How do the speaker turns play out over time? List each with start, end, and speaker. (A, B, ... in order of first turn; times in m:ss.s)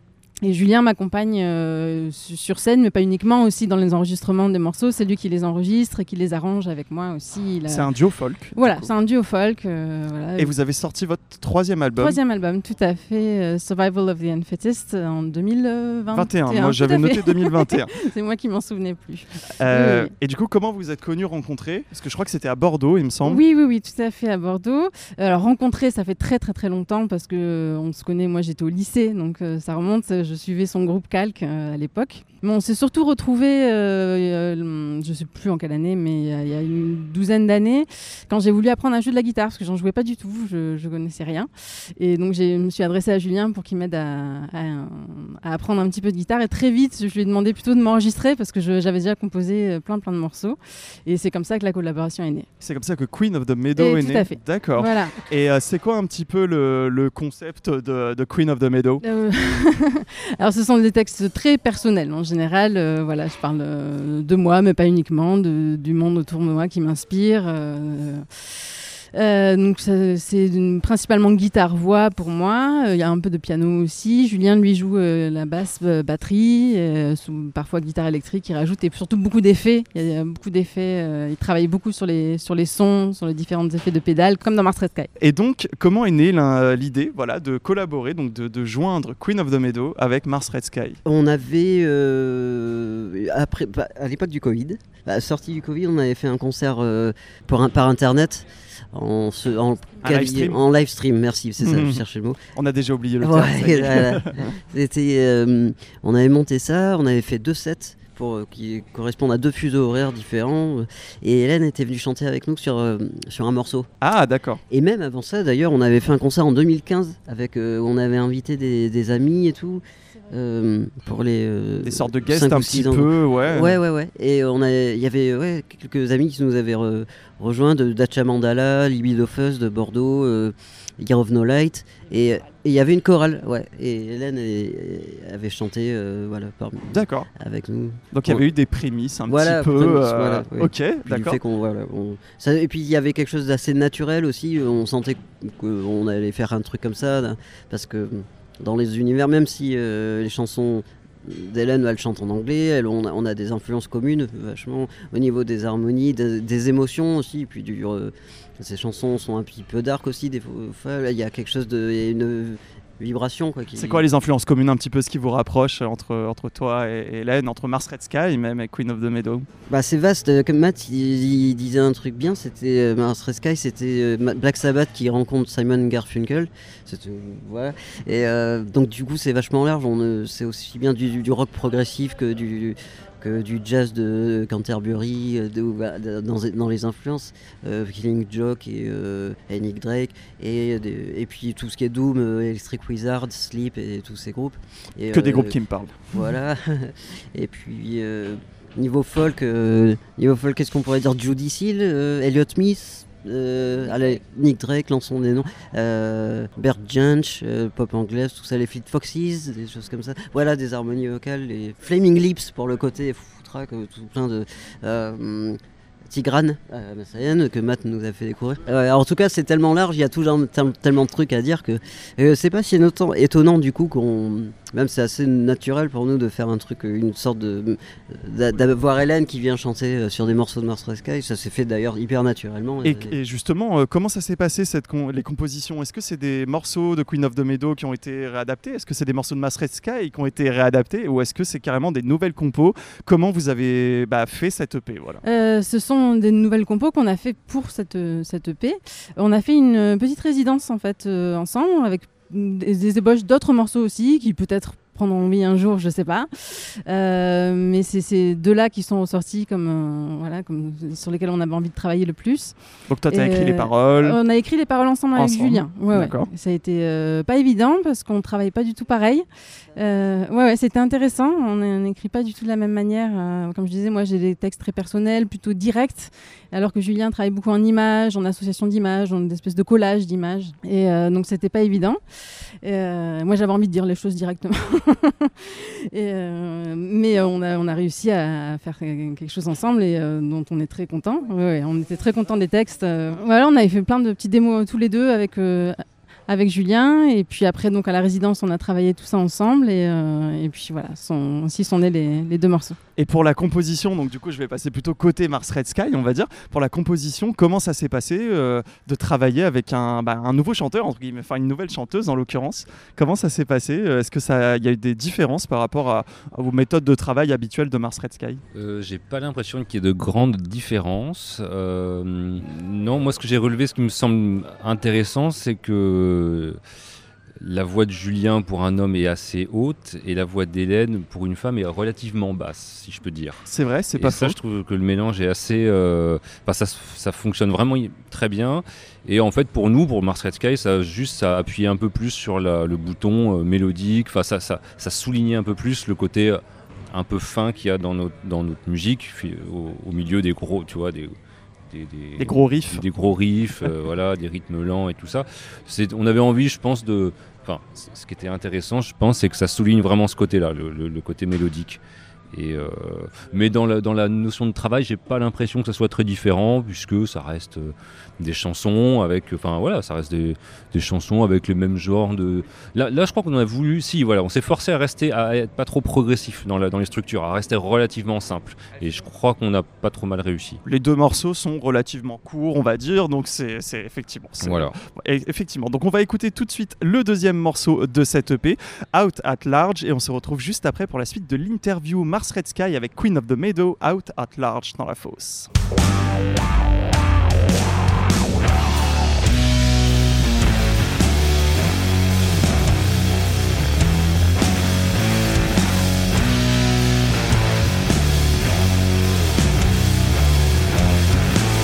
0:00.4-0:07.9 A
0:07.7-0:08.9 B
0:08.6-0:10.5 A
0:10.4-0:12.2 B
0:12.0-0:20.1 A
0:16.1-0:17.9 B
0:19.6-0:23.4 B
0:23.2-0:52.5 A
0:52.6-0:59.0 B
0:53.8-0:55.2 A
0:59.0-1:08.2 A
1:09.1-1:25.1 A
1:25.2-1:31.0 B
1:31.0-1:42.4 C
1:40.0-1:40.6 B
1:41.6-1:42.0 B
1:42.6-1:44.4 B
1:43.2-1:53.9 C
1:54.0-1:54.6 B
1:54.7-2:18.4 C
2:01.8-2:03.8 B
2:16.9-2:17.3 B
2:18.1-2:21.4 B
2:19.3-2:44.1 C
2:43.8-2:49.5 B
2:49.7-3:15.6 C
3:15.1-3:16.2 B
3:16.1-3:53.2 C
3:52.8-4:05.2 B
4:05.2-4:22.5 A
4:22.9-4:24.2 B
4:23.1-4:29.2 A
4:25.2-4:26.3 B
4:29.8-4:42.0 A
4:42.6-5:02.8 A
5:03.0-5:18.4 B
5:18.5-5:26.6 D
5:27.4-5:33.4 D
5:33.5-5:34.4 B
5:34.0-5:46.4 D
5:46.9-5:51.1 D
5:51.7-6:01.8 D
5:52.2-5:52.8 B
6:02.3-6:20.6 D
6:20.6-6:35.5 B
6:24.4-6:24.7 D